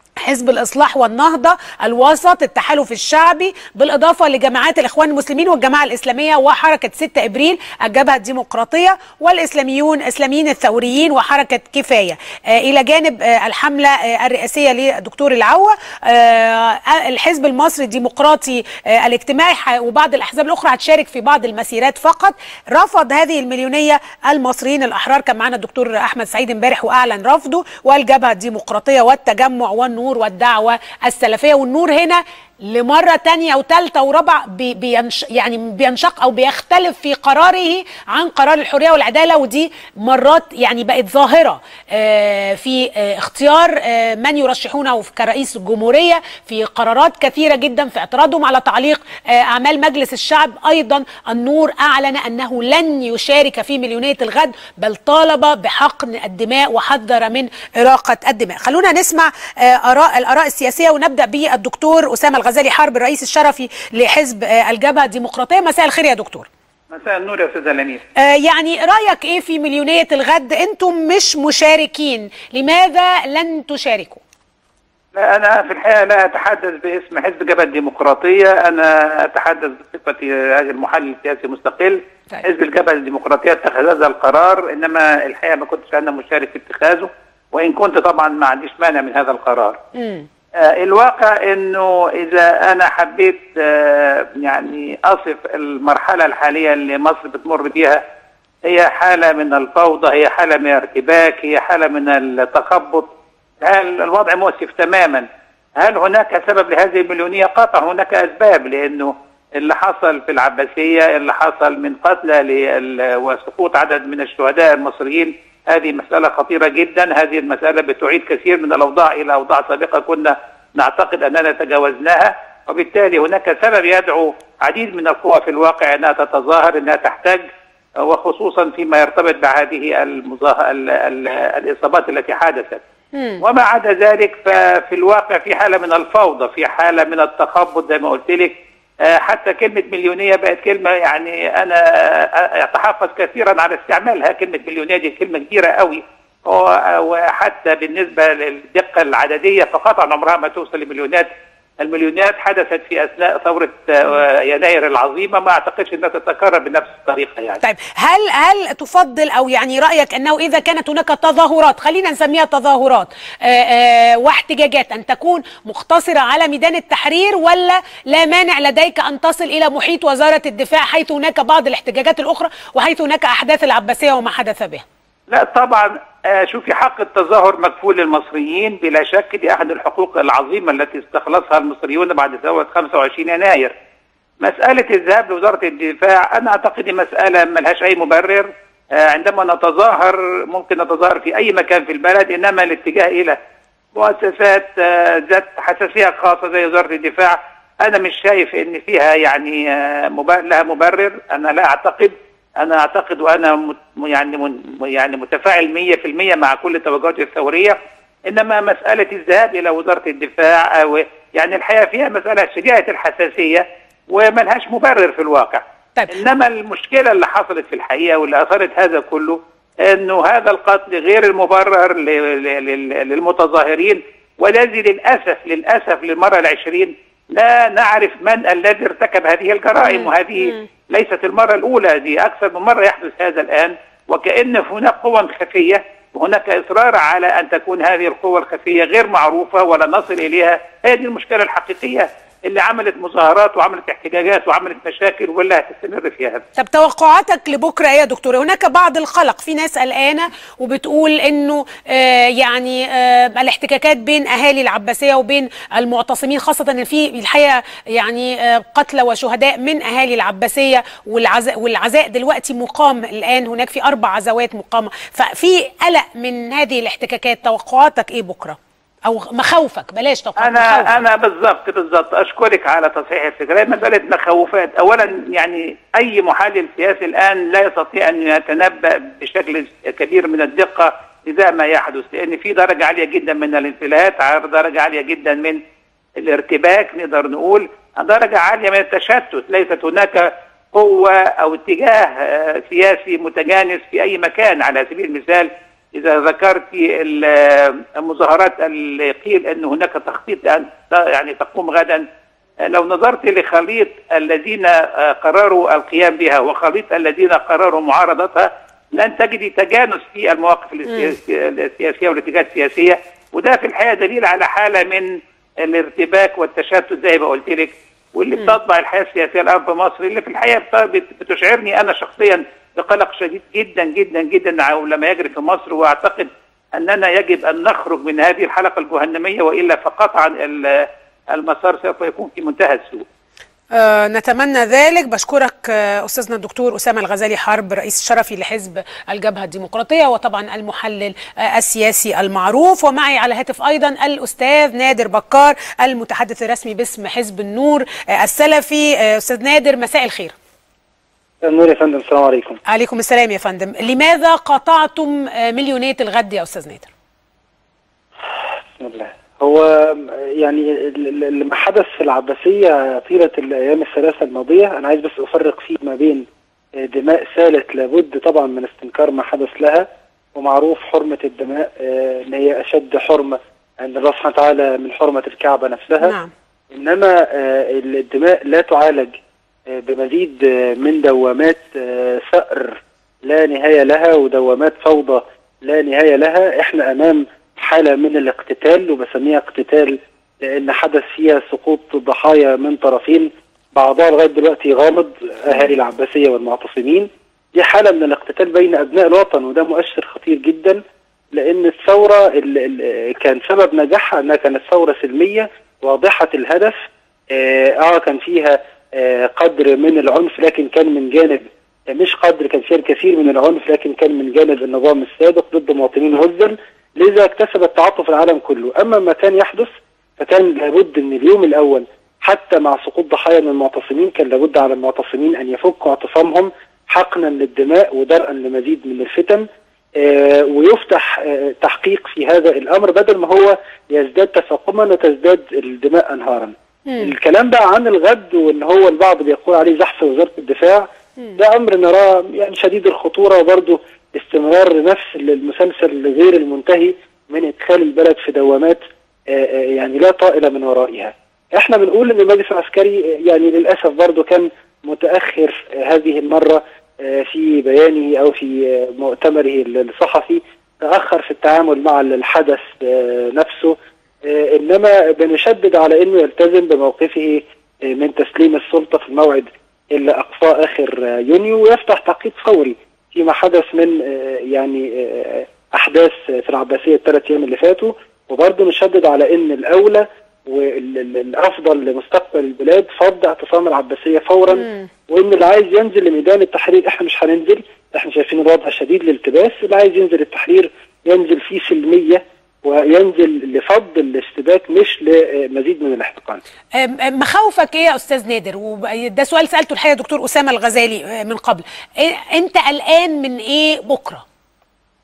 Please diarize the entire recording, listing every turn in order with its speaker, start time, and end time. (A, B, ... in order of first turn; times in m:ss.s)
0:00.2-1:06.5 A
1:06.9-1:08.0 B
1:08.2-1:14.2 A
1:15.1-1:29.8 B
1:30.0-1:30.2 A
1:30.6-1:38.0 B
1:38.6-1:43.1 B
1:43.6-1:45.2 B
1:45.8-2:07.4 B
2:08.0-2:12.8 B
2:13.1-2:13.4 A
2:13.4-2:37.6 B
2:37.6-2:54.8 A
2:55.3-3:03.7 B
3:04.4-3:13.4 B
3:13.9-4:06.4 B
3:49.9-3:50.6 A
4:06.6-4:31.0 A
4:30.4-4:45.6 B
4:46.2-5:02.0 B
5:02.6-5:33.0 B
5:33.7-5:50.3 A
5:51.4-5:52.6 C
5:52.7-5:56.9 A
5:58.8-6:06.2 C
6:06.8-6:16.1 C
6:16.0-6:16.3 A
6:16.7-6:19.1 C
6:19.7-6:40.8 C
6:41.3-6:46.8 C
6:47.3-7:09.4 C
7:10.0-8:16.4 C
7:16.9-7:17.1 A
8:04.6-8:04.9 A
8:16.8-8:24.2 A